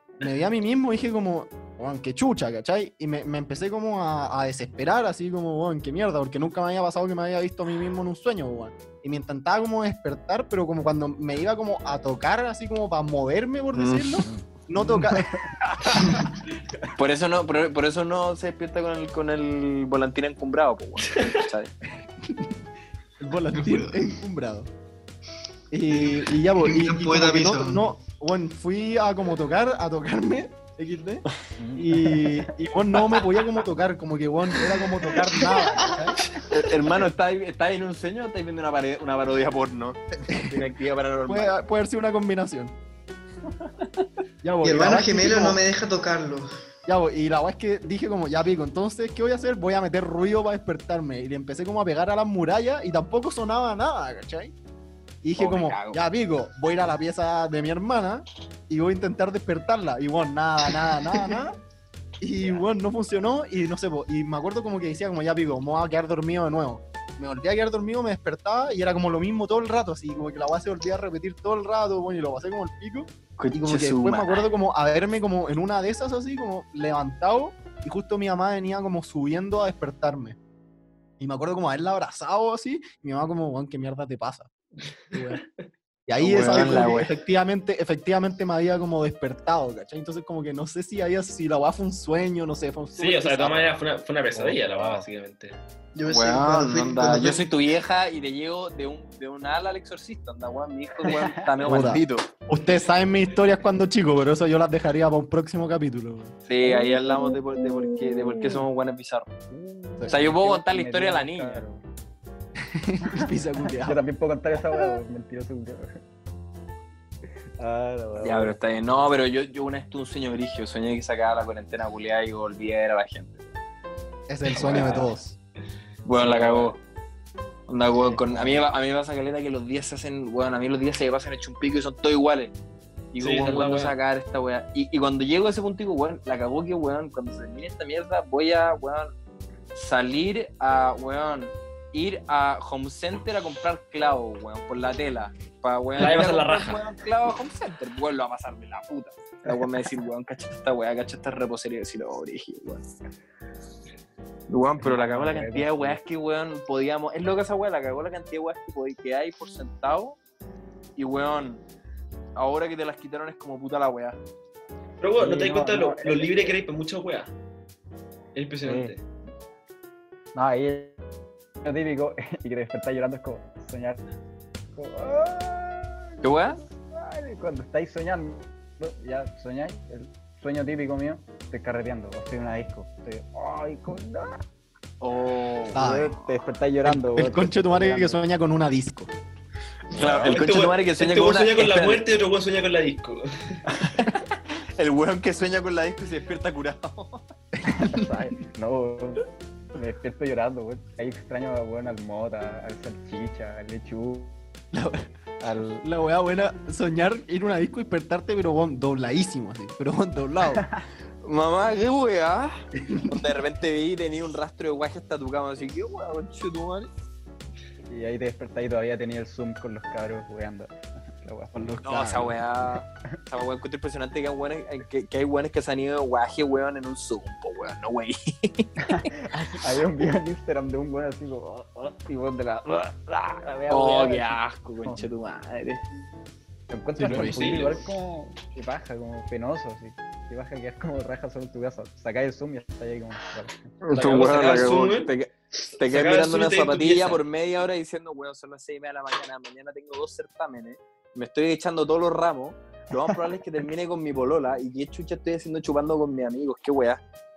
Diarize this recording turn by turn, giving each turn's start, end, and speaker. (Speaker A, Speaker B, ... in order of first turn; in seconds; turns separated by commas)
Speaker A: 0.2-15.4, Speaker B: 13.7-14.2, Speaker C: 14.3-15.4, Speaker D: 15.9-16.3, Speaker B: 16.9-21.7, Speaker A: 23.2-24.7, Speaker D: 23.5-24.1, Speaker A: 25.7-36.2, Speaker D: 25.9-27.9, Speaker C: 31.6-32.5, Speaker B: 36.5-41.5, Speaker A: 40.3-40.7, Speaker A: 41.2-42.7, Speaker A: 44.4-45.6, Speaker D: 44.6-46.5, Speaker A: 46.9-54.5, Speaker A: 55.2-61.6, Speaker B: 55.4-56.0, Speaker A: 62.2-80.3, Speaker B: 73.4-74.5, Speaker A: 81.2-84.5, Speaker A: 85.1-85.4, Speaker A: 86.1-93.7, Speaker B: 86.2-87.1, Speaker E: 92.9-95.5, Speaker C: 94.3-95.1, Speaker D: 95.9-97.5, Speaker B: 96.1-102.2, Speaker C: 101.1-101.5, Speaker A: 101.6-106.3, Speaker B: 106.5-109.3, Speaker C: 109.5-111.8, Speaker B: 110.1-111.6, Speaker A: 112.7-114.0, Speaker C: 113.8-116.0, Speaker C: 117.6-118.6, Speaker B: 118.2-123.5, Speaker A: 124.3-125.3, Speaker B: 124.5-125.0, Speaker E: 124.7-125.0, Speaker B: 126.0-126.8, Speaker E: 126.2-126.6, Speaker B: 127.7-132.5, Speaker C: 128.0-128.6, Speaker B: 133.1-139.1, Speaker E: 133.2-133.9, Speaker B: 139.7-152.9, Speaker E: 146.0-146.8, Speaker B: 154.5-160.2, Speaker C: 154.8-156.0, Speaker B: 160.9-161.6, Speaker B: 162.3-164.2, Speaker E: 165.0-167.3, Speaker C: 165.2-166.6, Speaker E: 168.3-169.0, Speaker C: 168.6-168.9, Speaker C: 170.3-171.0, Speaker C: 171.6-174.0, Speaker C: 174.8-184.4, Speaker B: 176.2-176.6, Speaker B: 185.0-185.8, Speaker A: 185.7-186.1, Speaker C: 185.7-188.2, Speaker A: 186.8-189.1, Speaker B: 189.9-192.0, Speaker E: 189.9-193.5, Speaker C: 189.9-190.3, Speaker B: 193.7-197.2, Speaker C: 197.7-204.3, Speaker A: 197.7-198.0, Speaker A: 204.7-205.1, Speaker C: 205.4-205.8, Speaker A: 205.8-210.6, Speaker C: 210.6-210.8, Speaker B: 211.2-216.9, Speaker C: 217.9-222.4, Speaker A: 221.5-222.1, Speaker B: 221.8-228.7, Speaker C: 228.8-235.1, Speaker B: 233.7-235.8, Speaker C: 236.7-243.6, Speaker A: 237.0-237.7, Speaker B: 243.8-257.0, Speaker E: 243.9-245.1, Speaker E: 245.8-247.2